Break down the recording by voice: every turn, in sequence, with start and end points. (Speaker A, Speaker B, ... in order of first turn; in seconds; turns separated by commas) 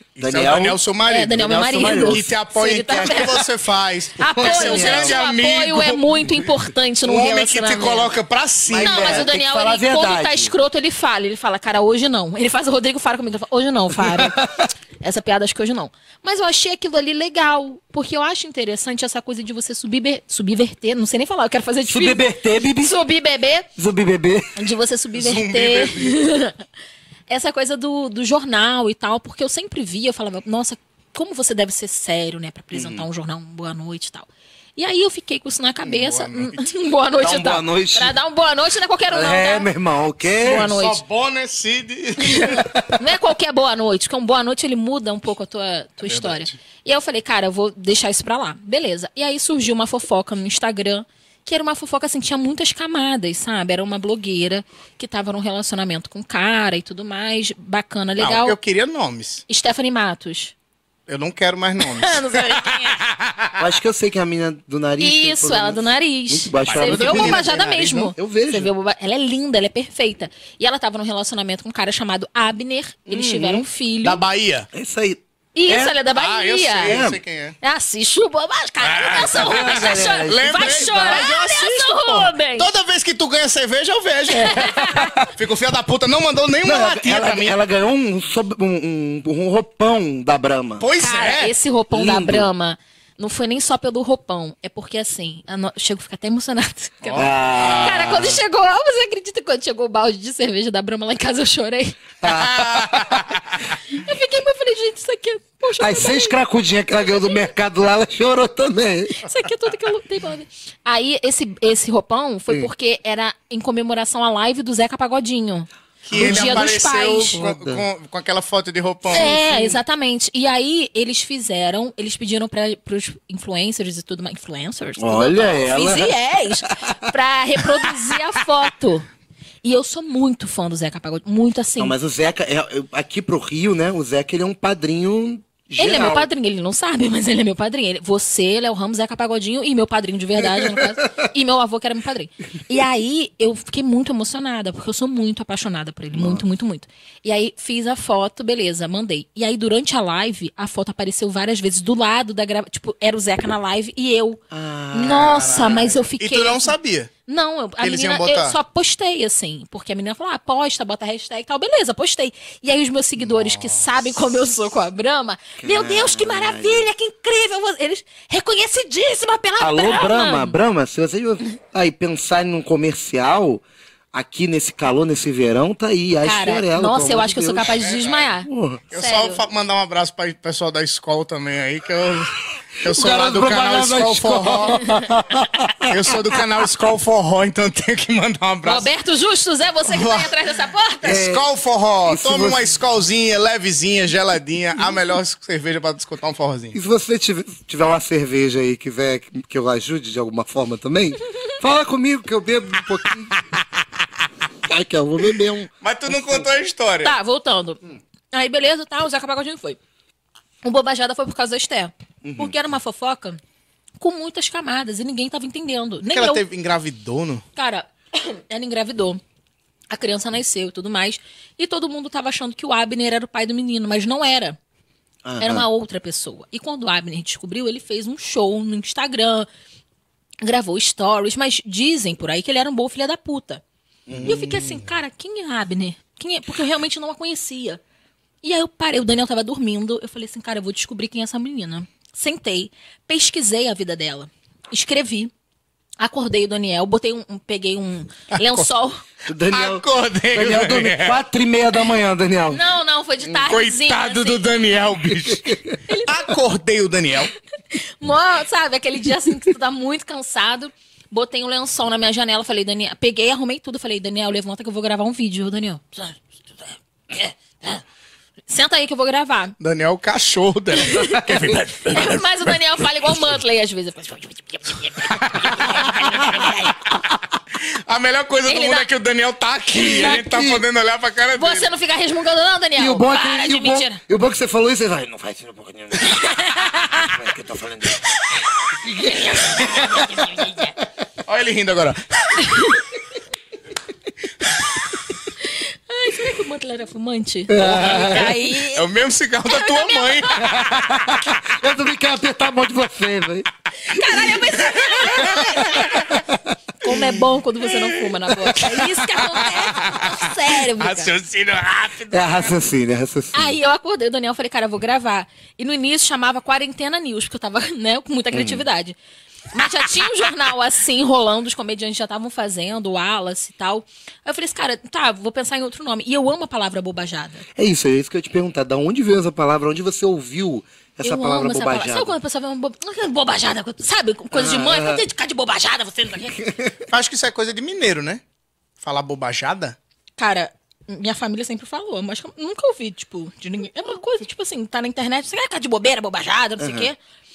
Speaker A: 0.2-6.0, Speaker B: 0.2-0.8, Speaker C: 1.1-3.4, Speaker B: 1.3-2.3, Speaker C: 4.2-8.1, Speaker B: 4.4-5.2, Speaker A: 7.0-9.3, Speaker B: 8.7-10.5, Speaker C: 8.8-14.4, Speaker B: 13.9-14.7, Speaker C: 15.0-23.7, Speaker B: 21.9-22.9, Speaker B: 23.8-24.6, Speaker C: 24.6-26.6, Speaker A: 25.1-26.2, Speaker C: 27.3-39.7, Speaker B: 32.7-33.1, Speaker A: 35.8-36.8, Speaker B: 37.2-38.1, Speaker B: 39.1-40.6, Speaker C: 40.4-41.0, Speaker A: 40.4-42.8, Speaker C: 42.2-58.6, Speaker A: 46.0-46.5, Speaker A: 58.2-59.4, Speaker C: 59.5-60.5, Speaker A: 61.1-63.6, Speaker C: 61.8-63.0, Speaker B: 63.6-68.7, Speaker C: 65.0-74.2, Speaker A: 66.6-68.0, Speaker B: 73.1-73.7, Speaker A: 74.0-74.7, Speaker B: 74.7-76.0, Speaker C: 75.5-77.0, Speaker A: 76.1-77.6, Speaker B: 76.8-77.2, Speaker C: 77.6-82.7, Speaker A: 78.8-87.6, Speaker B: 79.1-81.3, Speaker C: 84.3-85.3, Speaker B: 86.6-90.8, Speaker A: 90.8-91.5, Speaker C: 91.0-102.1, Speaker B: 91.9-92.5, Speaker A: 97.0-98.1, Speaker B: 97.1-98.4, Speaker B: 102.2-103.4, Speaker A: 102.3-103.4, Speaker C: 103.9-106.4, Speaker B: 105.8-109.2, Speaker C: 109.2-117.4, Speaker A: 116.1-119.8, Speaker B: 116.2-116.8, Speaker B: 117.4-117.8, Speaker C: 119.1-129.1, Speaker B: 125.0-128.1, Speaker C: 129.6-131.9, Speaker B: 131.8-136.3, Speaker C: 135.8-154.4, Speaker B: 140.4-141.2, Speaker B: 146.1-146.4, Speaker B: 154.5-155.9, Speaker C: 154.9-156.8, Speaker A: 155.0-157.1, Speaker C: 157.3-170.6, Speaker A: 157.8-158.6, Speaker B: 165.6-166.8, Speaker B: 169.6-177.8, Speaker C: 176.2-179.4, Speaker A: 177.6-178.3, Speaker B: 178.5-178.8, Speaker A: 178.9-184.8, Speaker B: 182.8-186.4, Speaker A: 185.9-188.9, Speaker C: 188.6-191.2, Speaker A: 189.8-190.3, Speaker B: 191.0-191.5, Speaker A: 191.0-196.8, Speaker B: 192.1-192.7, Speaker B: 196.7-203.3, Speaker B: 204.7-206.5, Speaker A: 205.8-207.2, Speaker C: 207.0-207.8, Speaker C: 208.3-209.8, Speaker C: 210.6-213.4, Speaker B: 212.2-212.5, Speaker C: 214.0-216.4, Speaker A: 216.1-217.4, Speaker C: 217.6-219.2, Speaker C: 219.9-224.6, Speaker B: 225.2-225.7, Speaker C: 225.4-229.5, Speaker C: 230.4-233.6, Speaker B: 234.1-234.7, Speaker C: 234.2-237.8, Speaker C: 238.4-245.3, Speaker C: 246.0-249.0, Speaker A: 248.3-248.7, Speaker B: 249.3-252.6, Speaker A: 249.5-251.2, Speaker C: 252.5-254.5, Speaker A: 253.3-257.3, Speaker B: 255.3-255.8, Speaker C: 255.9-256.3, Speaker C: 257.7-267.8, Speaker C: 268.5-269.6, Speaker A: 269.6-272.6, Speaker C: 270.8-276.8, Speaker A: 275.1-276.3, Speaker A: 277.7-281.7, Speaker C: 278.5-278.9, Speaker B: 279.8-280.6, Speaker C: 281.4-284.0, Speaker B: 282.8-286.3, Speaker C: 286.0-287.1, Speaker B: 287.0-288.0, Speaker B: 288.7-290.5, Speaker C: 288.9-290.7, Speaker A: 291.3-292.7, Speaker C: 292.4-292.9, Speaker C: 295.4-298.9, Speaker B: 297.5-298.4, Speaker A: 297.6-301.4, Speaker C: 299.5-300.5, Speaker B: 300.5-304.3, Speaker C: 303.8-306.2, Speaker A: 304.9-305.2, Speaker B: 305.2-306.4, Speaker C: 306.8-311.1, Speaker A: 306.9-312.6, Speaker B: 312.1-313.6, Speaker C: 313.3-319.0, Speaker B: 318.3-318.6, Speaker C: 319.5-327.4, Speaker B: 327.6-332.1, Speaker C: 331.0-336.4, Speaker B: 334.3-335.0, Speaker B: 336.4-336.9, Speaker A: 336.9-338.2, Speaker A: 338.8-339.8, Speaker C: 340.2-347.0, Speaker B: 346.6-346.9